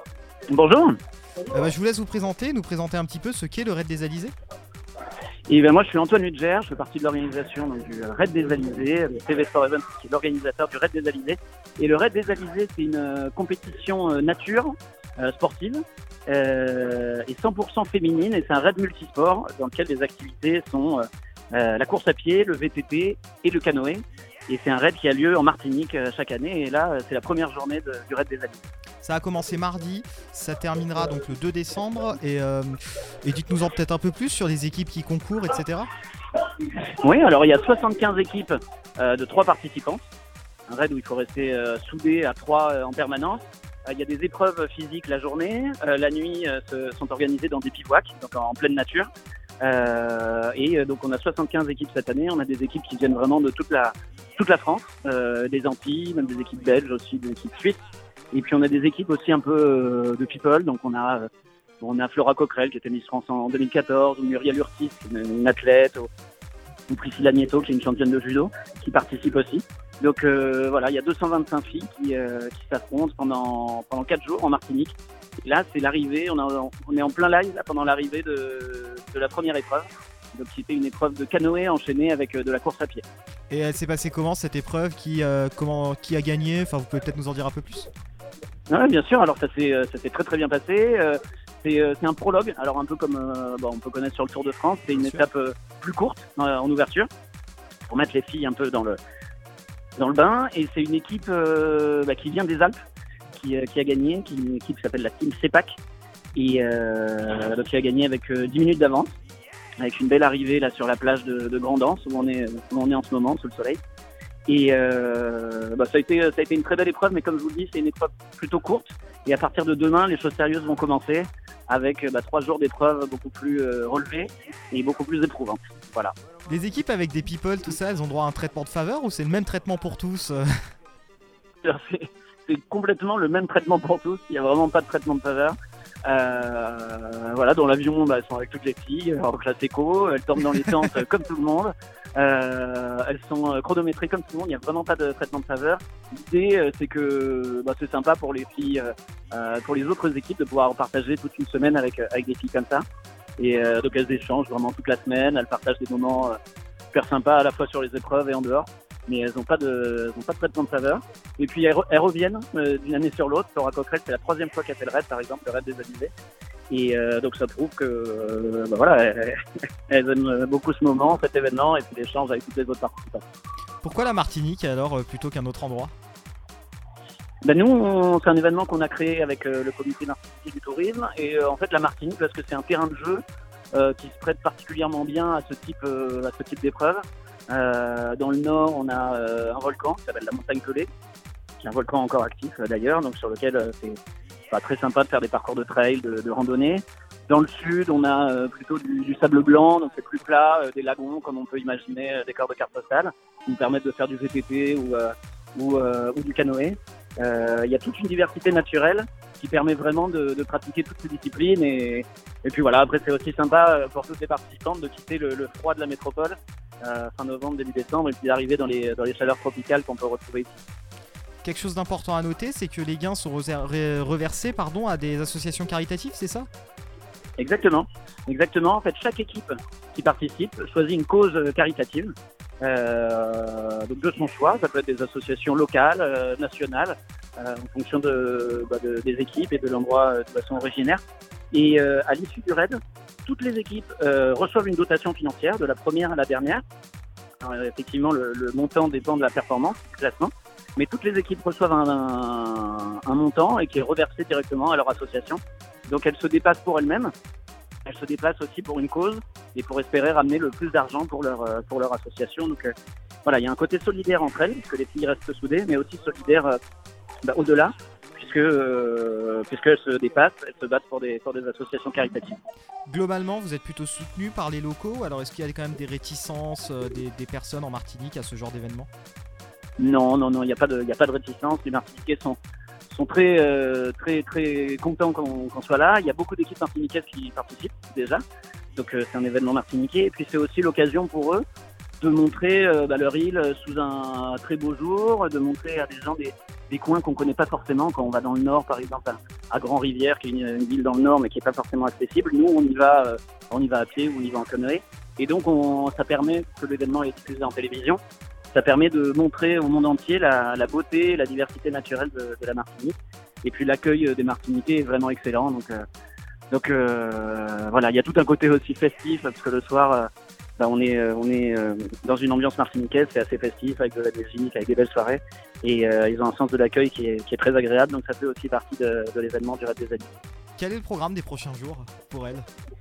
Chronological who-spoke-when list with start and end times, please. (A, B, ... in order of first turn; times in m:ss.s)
0:00.5-0:01.0 A
0:01.5-0:04.3 B
0:05.5-0:28.7 A
0:29.0-0:35.9 B
0:37.0-0:40.0 A
0:40.7-0:49.1 A
0:49.6-0:57.8 A
0:58.3-1:01.3 A
1:01.8-1:06.1 A
1:06.9-1:23.0 A
1:23.5-1:27.9 B
1:28.7-1:37.1 A
1:37.9-1:39.0 A
1:40.0-1:42.8 A
1:43.3-1:45.8 A
1:46.3-1:49.1 A
1:49.8-1:53.8 A
1:54.5-2:06.1 A
2:06.5-2:10.5 B
2:11.6-2:32.8 A
2:33.4-2:36.4 A
2:36.9-2:46.1 A
2:46.7-2:53.2 A
2:53.8-2:55.9 B
2:57.4-3:03.2 A
3:03.7-3:10.9 A
3:11.6-3:14.0 A
3:14.5-3:40.6 A
3:41.4-3:46.5 B
3:47.4-4:01.0 A
4:01.5-4:06.6 A
4:07.4-4:17.1 A
4:17.8-4:22.7 A
4:23.2-4:26.6 A
4:27.2-4:32.4 A
4:32.9-4:38.9 B
4:39.8-4:48.2 A
4:48.8-4:51.4 A
4:52.0-5:08.0 A
5:08.5-5:15.8 A
5:16.5-5:30.1 A
5:30.6-5:32.5 B